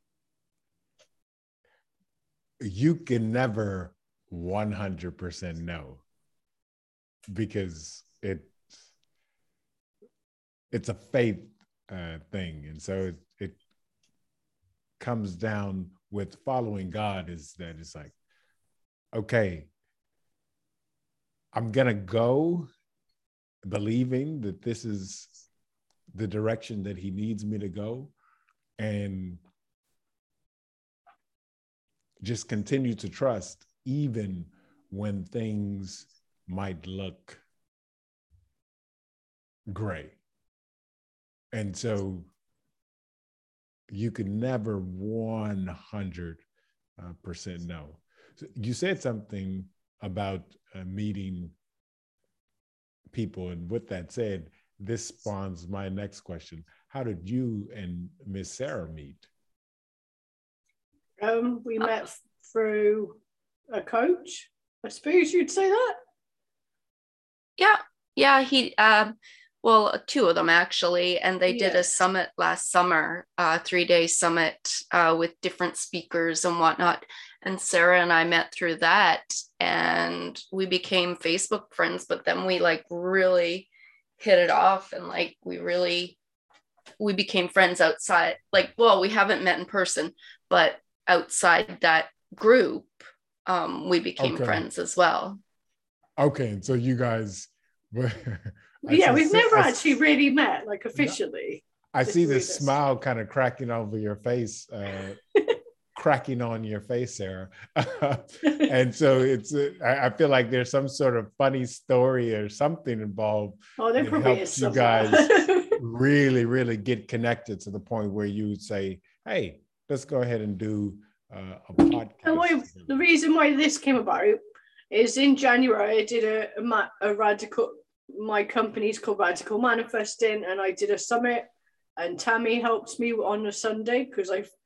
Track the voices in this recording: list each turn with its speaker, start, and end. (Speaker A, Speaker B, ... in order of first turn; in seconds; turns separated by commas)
Speaker A: 2.6-6.0, Speaker A: 7.3-8.6, Speaker A: 10.7-13.6, Speaker A: 15.0-18.1, Speaker A: 19.1-19.7, Speaker A: 21.5-22.7, Speaker A: 23.6-25.3, Speaker A: 26.1-28.1, Speaker A: 28.8-29.4, Speaker A: 32.2-37.4, Speaker A: 39.7-40.1, Speaker A: 41.5-42.3, Speaker A: 43.9-46.4, Speaker A: 47.0-51.5, Speaker A: 53.1-59.3, Speaker B: 61.2-63.2, Speaker B: 63.7-66.0, Speaker C: 67.6-86.2, Speaker B: 71.5-71.8, Speaker C: 87.0-95.4, Speaker A: 94.2-94.6, Speaker A: 96.2-100.0, Speaker B: 98.8-102.7, Speaker A: 101.9-105.2, Speaker A: 105.9-122.9, Speaker B: 108.4-108.7, Speaker B: 113.8-115.8, Speaker B: 122.2-124.4, Speaker B: 124.9-134.5